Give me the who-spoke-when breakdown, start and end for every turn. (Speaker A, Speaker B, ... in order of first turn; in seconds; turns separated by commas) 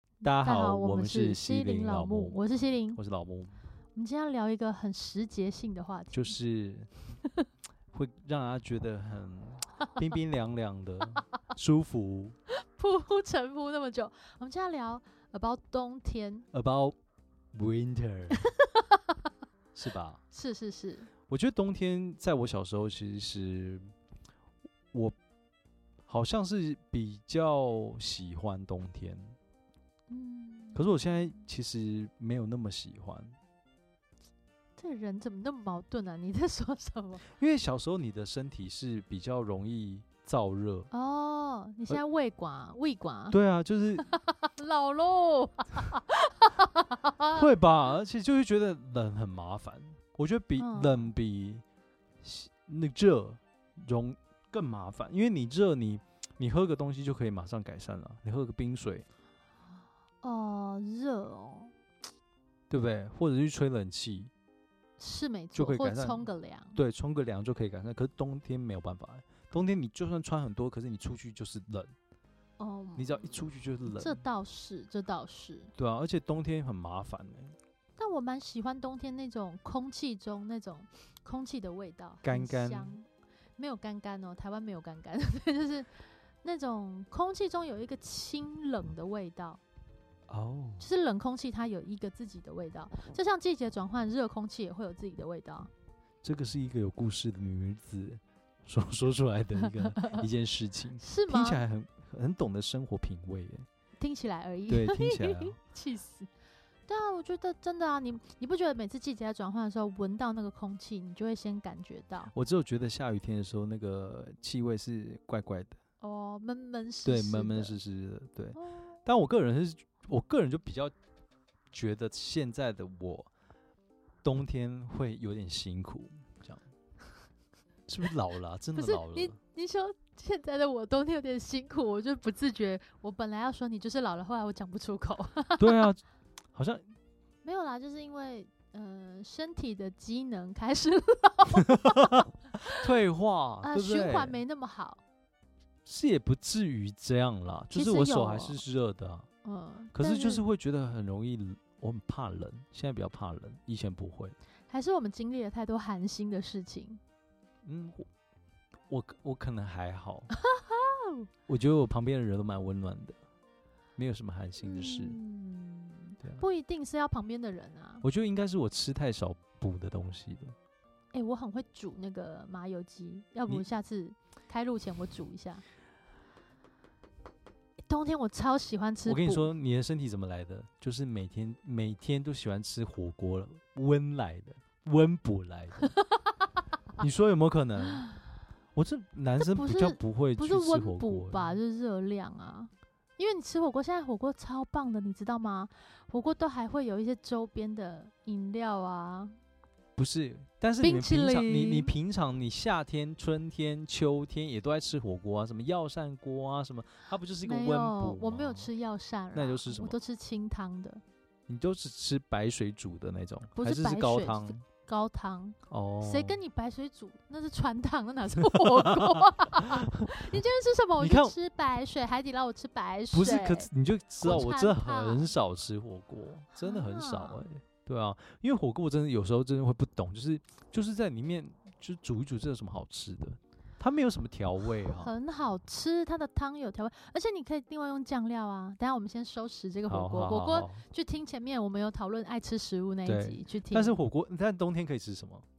Speaker A: 0.2-2.4, Speaker B: 0.3-3.0, Speaker A: 3.0-3.6, Speaker B: 4.0-6.4, Speaker A: 6.1-7.0, Speaker A: 7.9-12.3, Speaker B: 12.5-16.5, Speaker A: 16.5-17.0, Speaker A: 17.5-18.4, Speaker B: 18.5-19.0, Speaker A: 19.8-20.2, Speaker B: 20.3-21.1, Speaker A: 21.3-23.9, Speaker A: 26.1-29.4, Speaker B: 30.1-30.8, Speaker A: 30.8-33.4, Speaker B: 34.8-37.2, Speaker A: 37.4-40.9, Speaker B: 40.9-43.4, Speaker A: 43.3-44.1, Speaker B: 44.0-47.4, Speaker A: 47.3-51.6, Speaker B: 50.6-51.1, Speaker A: 52.2-59.0, Speaker B: 60.2-61.7, Speaker A: 62.7-64.3, Speaker B: 65.0-66.8, Speaker A: 65.5-66.2, Speaker A: 66.8-71.9, Speaker B: 72.6-75.7, Speaker A: 73.0-74.2, Speaker A: 75.8-77.5, Speaker B: 78.0-83.1, Speaker A: 82.2-83.0, Speaker B: 83.6-85.9, Speaker B: 86.4-89.6, Speaker A: 90.3-90.9, Speaker B: 90.8-95.7, Speaker A: 96.2-103.7, Speaker B: 99.8-100.1, Speaker B: 101.0-101.6, Speaker B: 104.0-106.3, Speaker A: 104.7-105.6, Speaker B: 106.9-112.3, Speaker A: 112.3-115.8, Speaker B: 116.0-117.8, Speaker A: 117.0-120.9, Speaker B: 118.6-119.0, Speaker A: 121.7-123.3, Speaker A: 124.2-126.6, Speaker A: 127.9-129.4, Speaker B: 128.8-135.8, Speaker A: 135.6-136.0, Speaker A: 136.5-136.8, Speaker B: 137.4-142.8, Speaker A: 142.8-144.4, Speaker B: 143.6-145.0, Speaker A: 145.8-149.3, Speaker B: 147.7-148.6, Speaker B: 149.4-150.4, Speaker A: 149.9-154.4, Speaker B: 154.7-157.0, Speaker A: 157.6-158.1, Speaker A: 158.9-160.3, Speaker B: 160.4-161.3, Speaker A: 161.5-163.2, Speaker A: 164.0-165.2, Speaker B: 164.6-168.1, Speaker A: 168.0-170.6, Speaker B: 171.1-175.6, Speaker B: 177.9-179.5, Speaker A: 179.1-185.9, Speaker A: 187.0-188.1, Speaker A: 188.8-191.6, Speaker B: 189.4-199.4, Speaker A: 200.0-208.7, Speaker B: 200.8-201.9, Speaker B: 207.4-211.0, Speaker A: 209.3-210.0, Speaker A: 211.5-214.6, Speaker B: 213.6-223.7, Speaker A: 215.7-216.4, Speaker A: 218.4-220.4, Speaker A: 221.0-221.4, Speaker A: 223.1-235.1, Speaker B: 224.2-225.3, Speaker B: 226.6-227.4, Speaker B: 234.9-244.0, Speaker A: 239.9-240.8, Speaker A: 243.1-245.4